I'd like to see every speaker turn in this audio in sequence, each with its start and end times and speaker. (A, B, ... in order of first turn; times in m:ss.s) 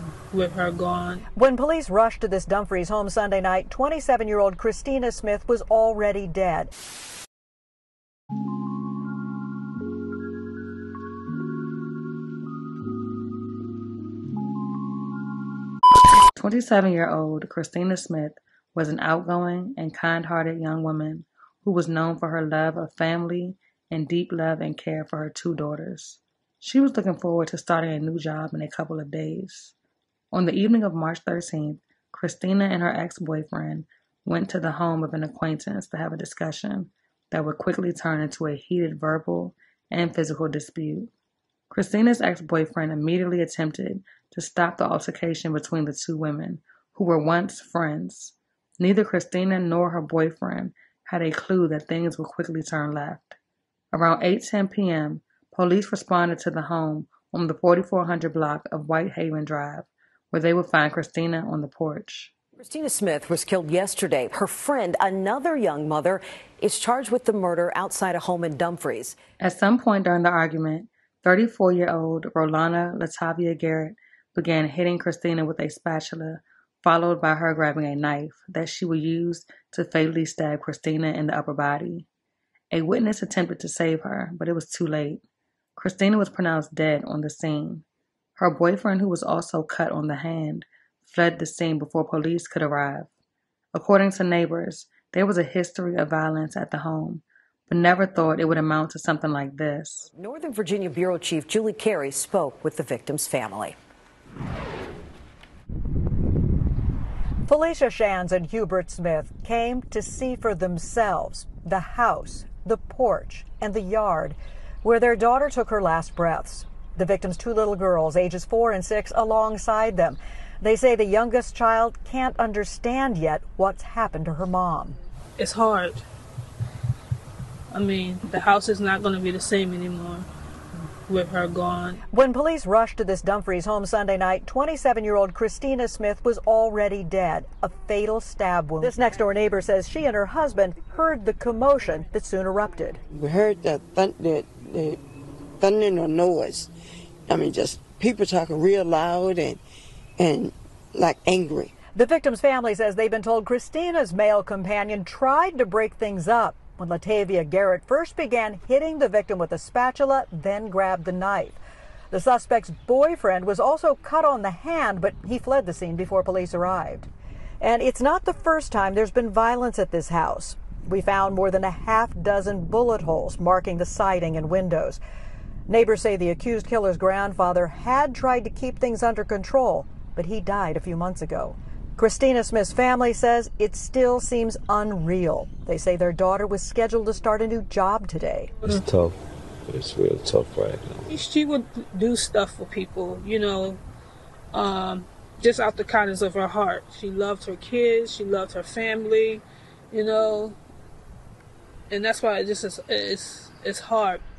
0:00.3-0:01.2 A
0:01.4-0:06.7 B
0:16.4-0:29.7 C
0:30.3-0:41.1 C
0:41.7-0:53.4 C
0:53.9-1:02.3 C
1:02.6-1:09.2 D
1:09.4-1:22.1 C
1:22.7-1:25.2 C
1:25.8-1:27.8 C
1:28.4-1:33.1 C
1:33.7-1:40.1 C
1:40.1-1:43.8 D
1:47.5-2:05.0 B
2:05.4-2:06.0 A
2:07.7-2:10.3 A
2:11.1-2:12.0 A
2:12.1-2:23.0 B
2:23.1-2:25.0 E
2:25.6-2:26.7 E
2:27.3-2:29.6 E
2:30.2-2:31.7 E
2:31.9-2:41.6 B
2:42.1-2:47.1 B
2:47.6-2:55.0 B
2:55.7-3:08.6 B
3:08.7-3:11.1 F
3:11.1-3:13.8 A
3:14.5-3:20.6 A
3:21.9-3:24.2 A